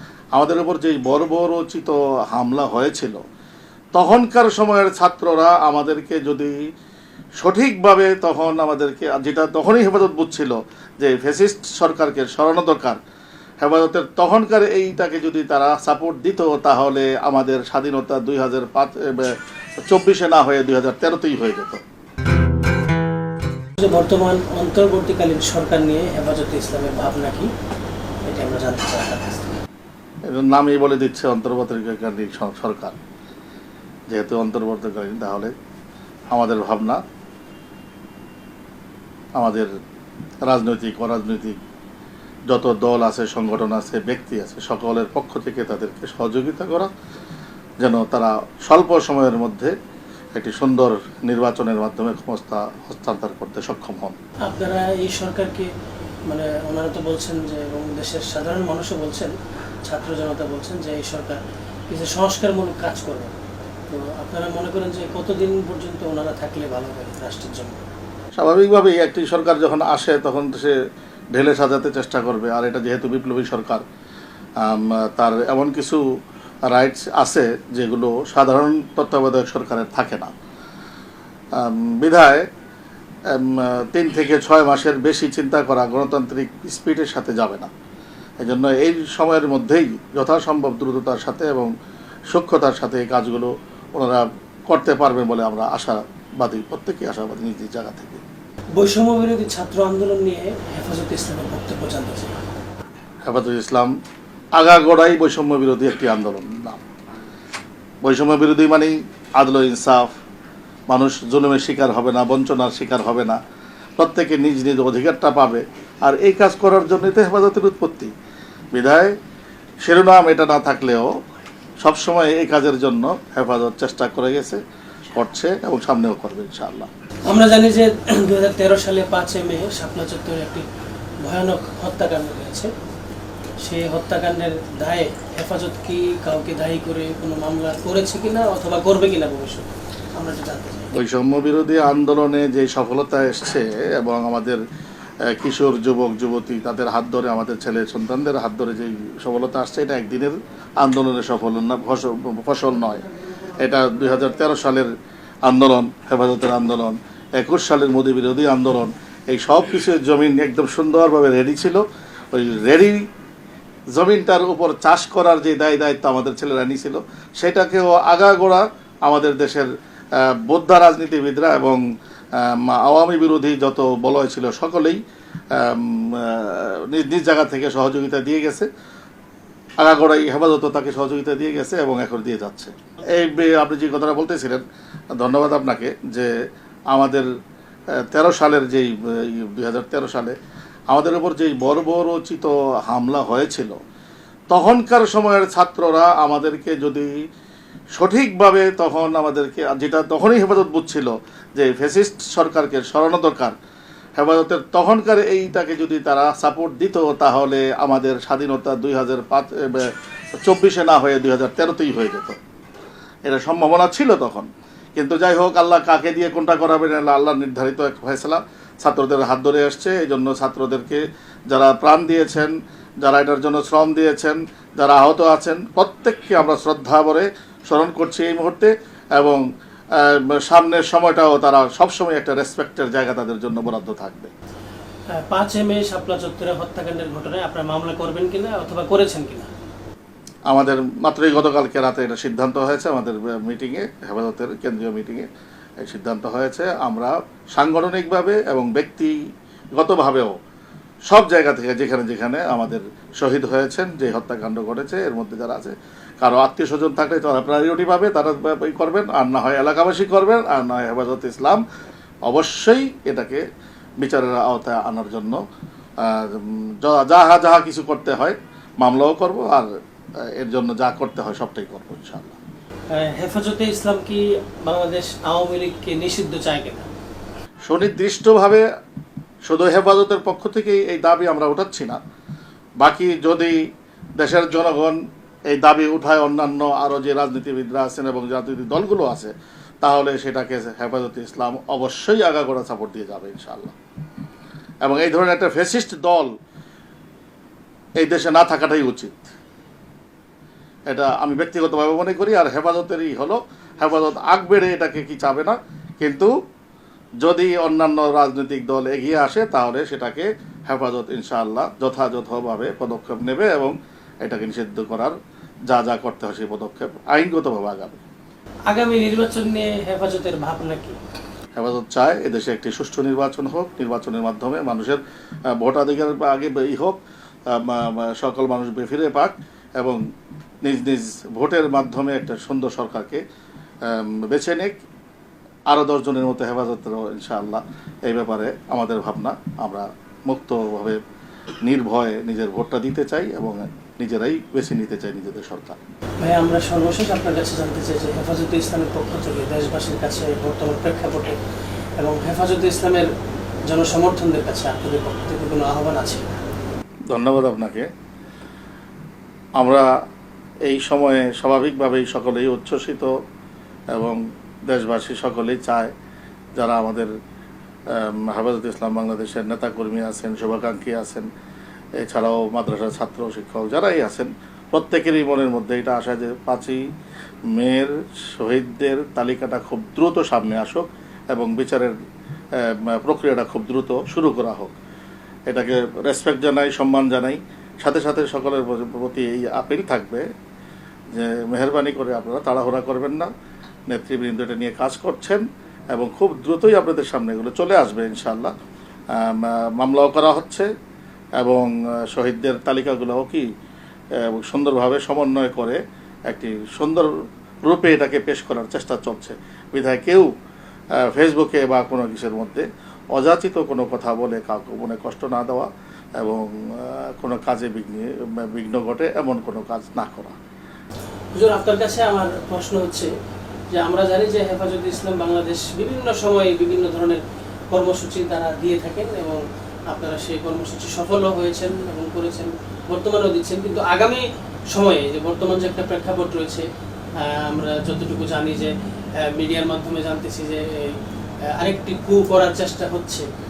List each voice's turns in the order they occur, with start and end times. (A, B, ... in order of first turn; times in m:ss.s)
0:00.3-0:03.2 A
0:04.0-0:06.6 A
0:07.4-0:13.0 A
0:13.6-0:21.8 A
0:23.8-0:27.5 B
0:28.2-0:29.6 B
0:30.3-0:33.0 A
0:34.1-0:35.5 A
0:36.3-0:37.0 A
0:39.4-0:39.7 A
0:40.5-0:41.6 A
0:42.5-0:46.9 A
0:47.8-0:49.7 A
0:50.4-0:54.2 A
0:54.5-0:55.7 B
0:56.3-1:03.4 B
1:03.9-1:07.8 B
1:08.4-1:10.8 A
1:11.3-1:13.8 A
1:14.6-1:16.0 A
1:16.7-1:20.3 A
1:21.6-1:22.5 A
1:23.3-1:27.7 A
1:28.4-1:31.7 A
1:32.3-1:38.2 A
1:38.8-1:42.4 B
1:43.3-1:43.9 A
1:44.6-1:46.8 A
1:48.0-1:50.1 A
1:50.9-1:53.4 A
1:54.0-1:58.1 A
1:58.7-1:59.2 A
1:59.8-2:01.1 A
2:01.8-2:06.9 A
2:07.3-2:10.7 B
2:11.2-2:12.7 B
2:13.6-2:20.9 B
2:20.9-2:24.6 A
2:25.3-2:33.0 A
2:33.6-2:34.9 A
2:35.5-2:43.0 A
2:43.9-2:51.8 A
2:52.4-2:55.0 A
2:55.5-2:58.7 A
2:59.8-3:04.6 A
3:05.2-3:06.3 A
3:06.9-3:07.3 A
3:08.0-3:10.4 A
3:10.9-3:13.8 A
3:14.5-3:17.1 A
3:18.0-3:23.6 A
3:24.2-3:32.4 A
3:33.3-3:49.4 A
3:50.0-3:54.3 A
3:55.2-3:59.5 B
4:00.5-4:05.3 A
4:05.8-4:09.2 A
4:09.7-4:10.4 A
4:11.1-4:21.6 A
4:22.3-4:23.4 A
4:24.0-4:25.4 A
4:26.0-4:29.7 A
4:30.2-4:32.4 A
4:32.9-4:36.9 B
4:37.7-4:38.6 A
4:39.4-4:42.0 A
4:42.8-4:43.6 A
4:44.2-4:53.7 A
4:54.8-4:56.3 A
4:58.0-4:59.3 A
5:00.9-5:06.3 A
5:07.2-5:15.2 A
5:15.7-5:18.0 A
5:18.7-5:21.0 B
5:21.6-5:25.0 A
5:25.5-5:27.0 A
5:27.5-5:30.0 A
5:30.6-5:33.2 A
5:33.9-5:34.8 A
5:35.7-5:41.0 A
5:41.6-5:45.8 A
5:46.2-5:51.4 B
5:52.0-5:53.1 B
5:53.7-5:56.3 B
5:57.1-5:57.9 A
5:59.6-5:59.9 A
6:00.7-6:03.1 A
6:03.9-6:05.9 A
6:06.6-6:07.1 A
6:07.9-6:11.3 A
6:12.0-6:16.8 A
6:17.5-6:21.9 A
6:22.6-6:24.8 A
6:25.5-6:30.3 A
6:31.1-6:33.3 A
6:33.9-6:38.5 A
6:39.1-6:40.7 A
6:41.4-6:43.5 A
6:44.2-6:47.1 A
6:47.6-6:50.3 A
6:51.0-6:55.7 A
6:56.2-7:00.4 A
7:01.3-7:03.1 B
7:03.7-7:16.6 B
7:17.2-7:21.0 B
7:21.6-7:23.3 B